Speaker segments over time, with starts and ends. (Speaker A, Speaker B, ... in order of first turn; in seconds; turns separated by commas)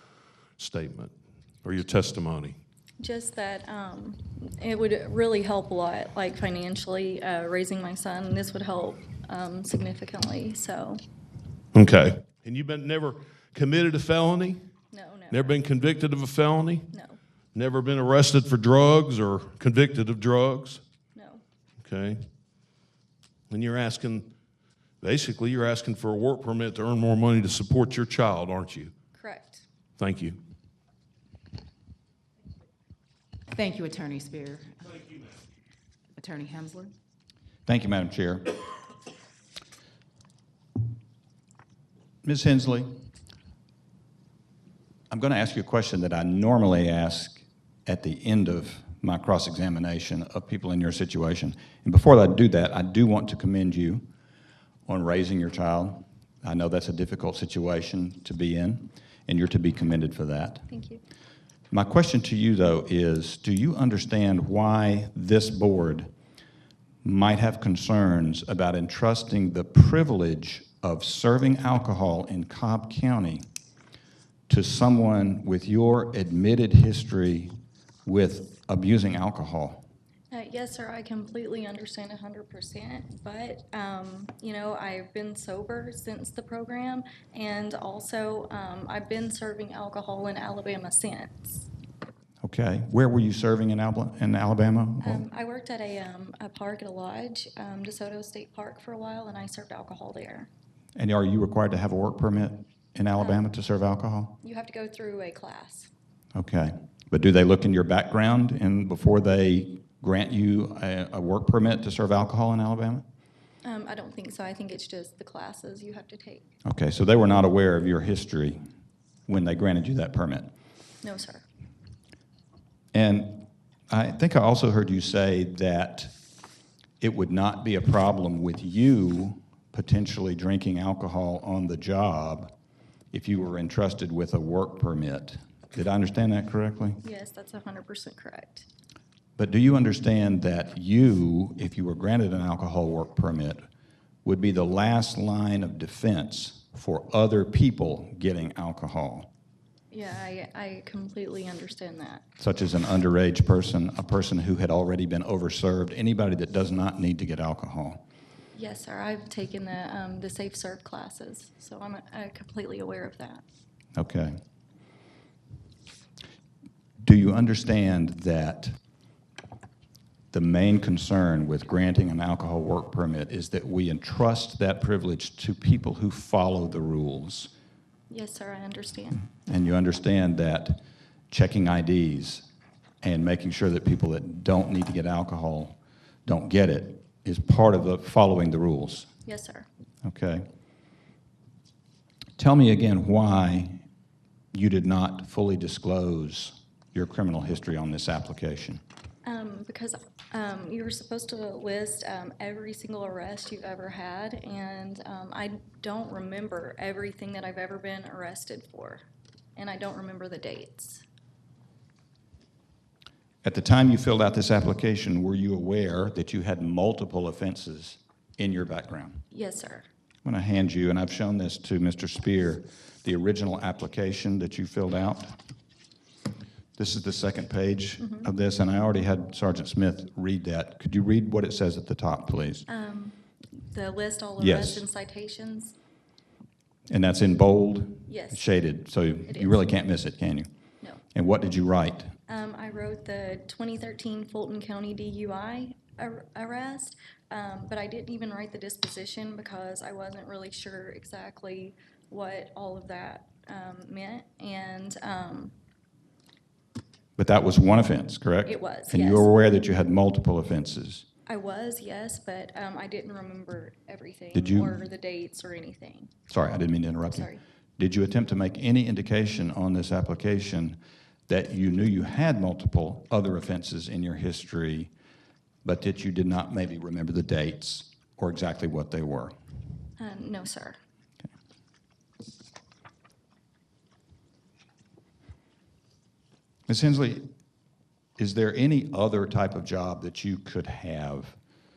Speaker A: 0.6-1.1, Speaker A: 1.6-2.6, Speaker B: 3.0-11.0, Speaker A: 11.7-14.6, Speaker B: 14.9-15.6, Speaker A: 15.3-16.9, Speaker B: 16.9-17.2, Speaker A: 17.5-20.8, Speaker B: 21.1-21.4, Speaker A: 21.8-22.2, Speaker A: 23.5-24.3, Speaker A: 25.0-28.9, Speaker B: 29.1-29.6, Speaker A: 30.0-30.4, Speaker C: 33.5-34.9, Speaker C: 36.1-36.9, Speaker D: 37.6-38.6, Speaker D: 42.2-43.0, Speaker D: 45.1-54.0, Speaker D: 54.9-60.7, Speaker B: 60.7-61.0, Speaker D: 61.7-66.1, Speaker D: 67.0-73.5, Speaker D: 74.5-79.8, Speaker B: 80.3-91.7, Speaker D: 92.4-95.2, Speaker B: 95.0-100.5, Speaker D: 101.0-104.3, Speaker B: 103.2-103.4, Speaker B: 104.4-105.9, Speaker D: 106.3-113.0, Speaker B: 113.6-116.5, Speaker D: 116.6-118.6, Speaker D: 119.2-120.5, Speaker B: 121.0-121.4, Speaker D: 122.9-126.1, Speaker D: 127.0-132.5, Speaker D: 133.1-137.0, Speaker B: 137.0-138.7, Speaker D: 139.4-143.6, Speaker D: 144.2-149.3, Speaker B: 149.9-152.2, Speaker D: 152.4-158.0, Speaker B: 158.5-163.4, Speaker D: 163.9-164.4, Speaker D: 167.0-168.7, Speaker D: 170.3-177.5, Speaker B: 178.1-179.3, Speaker D: 179.4-182.4, Speaker D: 183.0-189.1, Speaker B: 189.2-189.7, Speaker D: 190.0-190.5, Speaker D: 192.4-193.8, Speaker D: 194.5-198.8, Speaker B: 199.2-209.0, Speaker B: 209.6-211.0, Speaker D: 213.4-219.2, Speaker B: 219.3-219.8, Speaker D: 220.2-225.3, Speaker D: 226.8-232.7, Speaker B: 228.0-228.3, Speaker B: 232.7-235.8, Speaker D: 234.4-234.8, Speaker D: 236.9-240.5, Speaker B: 238.1-238.4, Speaker B: 239.3-239.6, Speaker D: 241.1-242.1, Speaker B: 242.3-255.5, Speaker D: 257.1-261.0, Speaker B: 258.4-259.3, Speaker B: 261.3-266.1, Speaker D: 264.3-264.8, Speaker D: 266.3-274.9, Speaker B: 267.1-267.4, Speaker D: 275.6-279.3, Speaker B: 280.0-280.8, Speaker D: 286.7-287.2, Speaker D: 288.2-291.3